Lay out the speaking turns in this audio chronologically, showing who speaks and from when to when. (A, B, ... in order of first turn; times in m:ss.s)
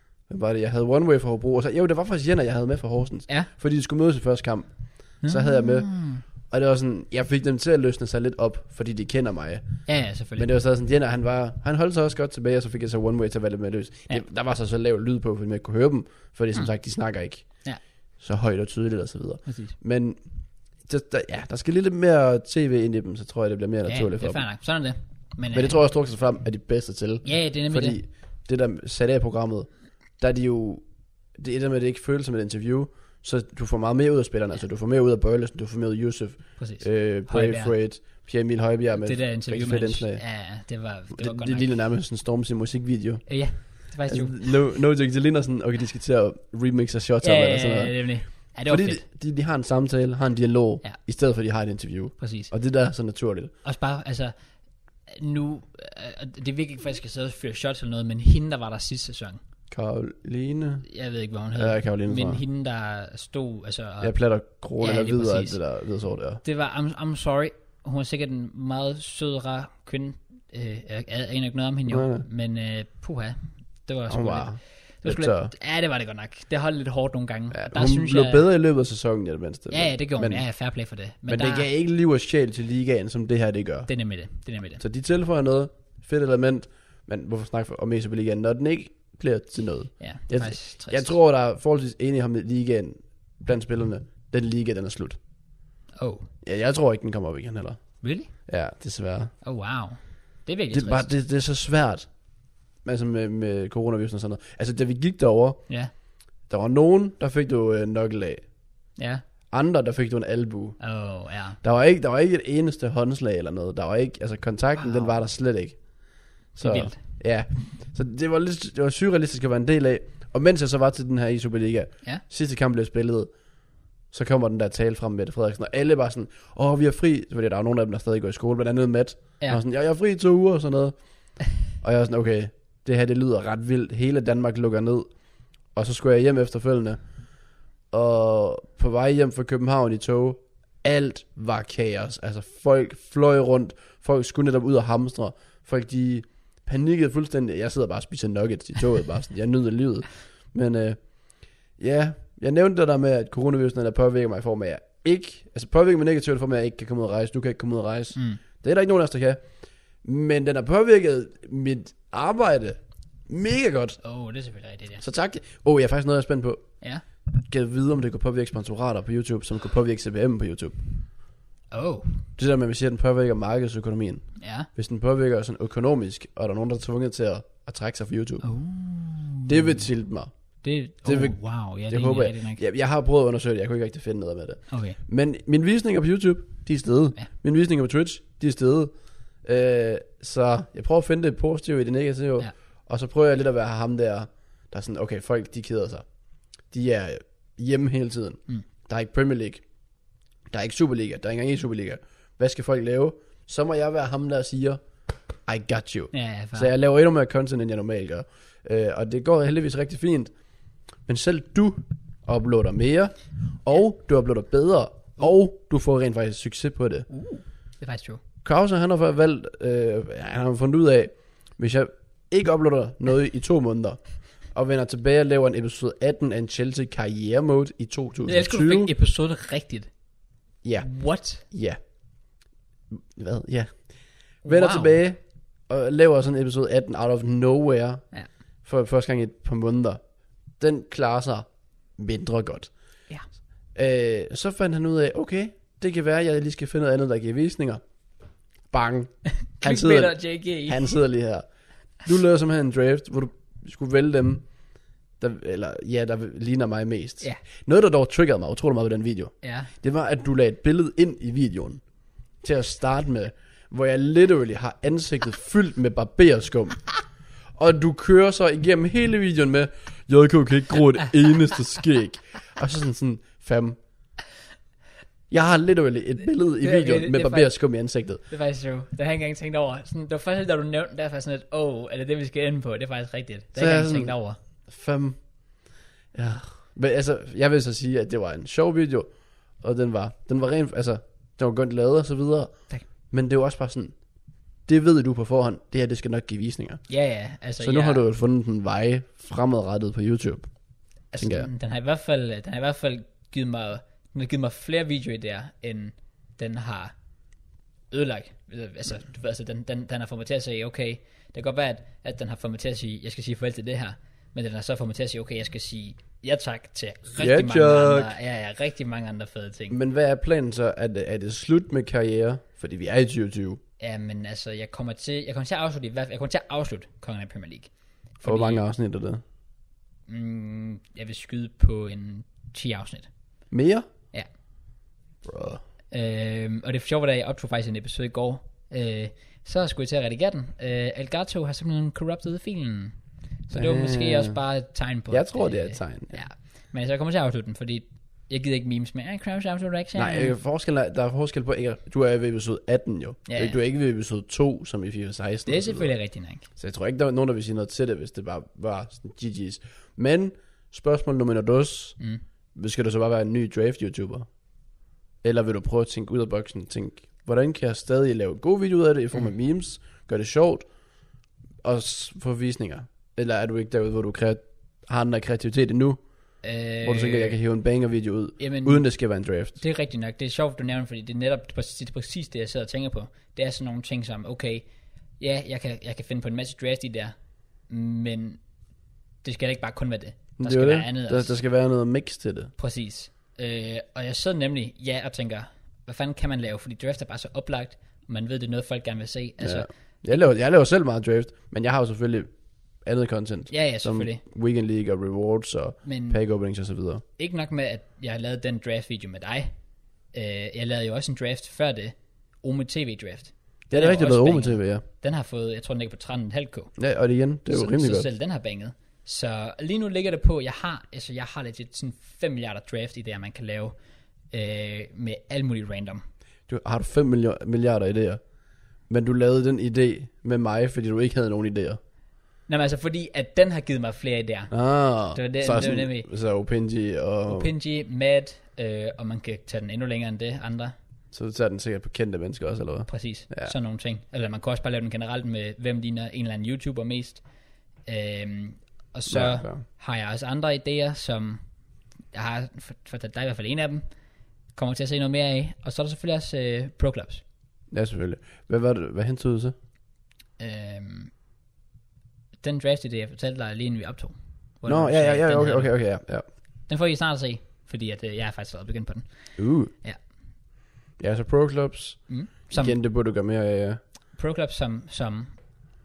0:00.3-0:09.8 A
0:05.2-0:06.2 B
0:09.9-0:10.5 B
0:10.4-0:17.5 A
0:18.2-0:20.2 A
0:19.5-0:19.8 B
0:20.8-0:24.4 A
0:23.9-0:25.8 B
0:25.5-0:29.7 A
0:27.2-0:28.0 B
0:30.2-0:30.8 A
0:31.4-0:40.2 A
0:36.6-0:37.8 B
0:39.0-0:41.7 B
0:41.1-0:48.0 A
0:43.3-0:44.5 B
0:47.2-0:49.0 B
0:48.7-0:53.5 A
0:52.2-0:52.5 B
0:53.6-0:54.3 B
0:55.1-0:59.4 B
0:59.7-1:00.9 A
1:00.9-1:04.2 B
1:01.6-1:02.4 A
1:04.0-1:06.4 A
1:04.8-1:05.6 B
1:06.4-1:18.4 B
1:11.9-1:12.3 A
1:14.1-1:15.5 A
1:17.5-1:20.5 A
1:19.7-1:21.7 B
1:21.3-1:23.9 A
1:23.9-1:24.8 B
1:24.8-1:35.2 A
1:30.0-1:31.1 B
1:36.0-1:36.3 B
1:36.4-1:37.8 A
1:38.0-1:38.3 B
1:38.5-1:39.3 A
1:39.4-1:41.1 B
1:40.7-1:42.1 A
1:42.8-1:45.7 A
1:46.5-1:48.5 A
1:49.0-1:49.2 B
1:49.5-1:50.8 A
1:50.8-1:51.6 B
1:51.6-1:55.9 A
1:54.8-1:55.1 B
1:56.5-2:03.3 A
1:56.6-1:57.0 B
2:04.1-2:11.0 A
2:11.7-2:15.1 A
2:15.7-2:17.0 A
2:17.9-2:31.0 A
2:31.8-2:39.4 A
2:38.2-2:38.4 B
2:40.0-2:44.0 A
2:44.0-2:45.0 B
2:45.0-2:46.7 A
2:47.3-2:50.8 A
2:51.7-2:52.2 B
2:52.4-2:58.5 A
2:54.4-2:54.7 B
2:58.4-2:59.9 B
2:59.5-3:00.3 A
3:00.6-3:02.6 B
3:01.0-3:08.9 A
3:04.7-3:05.0 B
3:09.4-3:16.1 A
3:16.7-3:19.6 A
3:20.5-3:24.8 A
3:25.5-3:30.3 A
3:26.1-3:26.7 B
3:31.1-3:37.1 A
3:37.1-3:38.2 B
3:38.4-3:48.9 A
3:48.3-3:49.9 B
3:50.6-3:51.8 A
3:50.8-3:51.4 B
3:52.9-3:58.1 A
3:54.4-3:55.0 B
3:58.6-4:00.0 A
4:00.6-4:02.7 A
4:03.7-4:07.8 A
4:08.7-4:11.4 A
4:09.4-4:11.0 B
4:12.0-4:14.4 A
4:15.2-4:21.8 A
4:19.4-4:19.7 B
4:22.4-4:27.0 A
4:27.6-4:33.8 A
4:35.3-4:38.2 A
4:36.6-4:37.6 B
4:38.3-4:44.4 B
4:43.6-4:44.2 A
4:44.7-4:45.2 A
4:46.1-4:49.1 A
4:49.6-4:54.0 A
4:54.7-4:56.8 A
4:56.9-4:58.0 B
4:57.6-5:00.5 A
5:01.1-5:06.9 B
5:01.2-5:01.5 A
5:07.9-5:19.8 B
5:17.2-5:18.2 A
5:19.7-5:23.6 A
5:23.8-5:28.6 B
5:28.2-5:29.2 A
5:30.1-5:33.1 B
5:33.5-5:33.9 A
5:35.2-5:35.6 A
5:35.9-5:43.0 B
5:43.5-5:50.4 B
5:43.5-5:44.4 A
5:45.1-5:46.2 A
5:50.0-5:55.9 A
5:53.3-5:53.6 B
5:55.5-5:56.5 B
5:56.6-6:02.0 A
6:02.6-6:04.3 A
6:05.2-6:10.7 A
6:11.6-6:16.0 A
6:16.4-6:17.4 B
6:16.8-6:19.6 A
6:18.4-6:18.9 B
6:19.6-6:24.7 B
6:25.2-6:27.2 B
6:27.7-6:28.4 B
6:29.2-6:31.4 B
6:30.4-6:32.5 A
6:32.6-6:39.7 B
6:39.4-6:42.3 A
6:42.8-6:47.0 A
6:43.5-6:44.2 B
6:45.8-6:46.2 B
6:47.2-6:49.5 B
6:50.1-6:56.7 B
6:53.7-6:54.8 A
6:56.8-6:58.1 A
6:57.5-7:03.8 B
7:04.3-7:06.0 B
7:06.5-7:08.2 A
7:08.9-7:11.8 A
7:12.5-7:14.5 B
7:14.5-7:17.5 A
7:15.1-7:16.1 B
7:17.3-7:20.8 B
7:21.1-7:23.5 A
7:22.9-7:27.2 B
7:27.8-7:31.4 B
7:29.1-7:29.6 A
7:32.1-7:33.8 B
7:34.6-7:37.2 B
7:37.7-7:39.5 A
7:40.4-7:41.1 B
7:42.4-7:45.8 B
7:44.7-7:46.2 A
7:46.7-7:50.0 B
7:49.4-7:49.7 A
7:51.0-7:53.8 A
7:52.1-7:52.8 B
7:54.2-7:55.4 B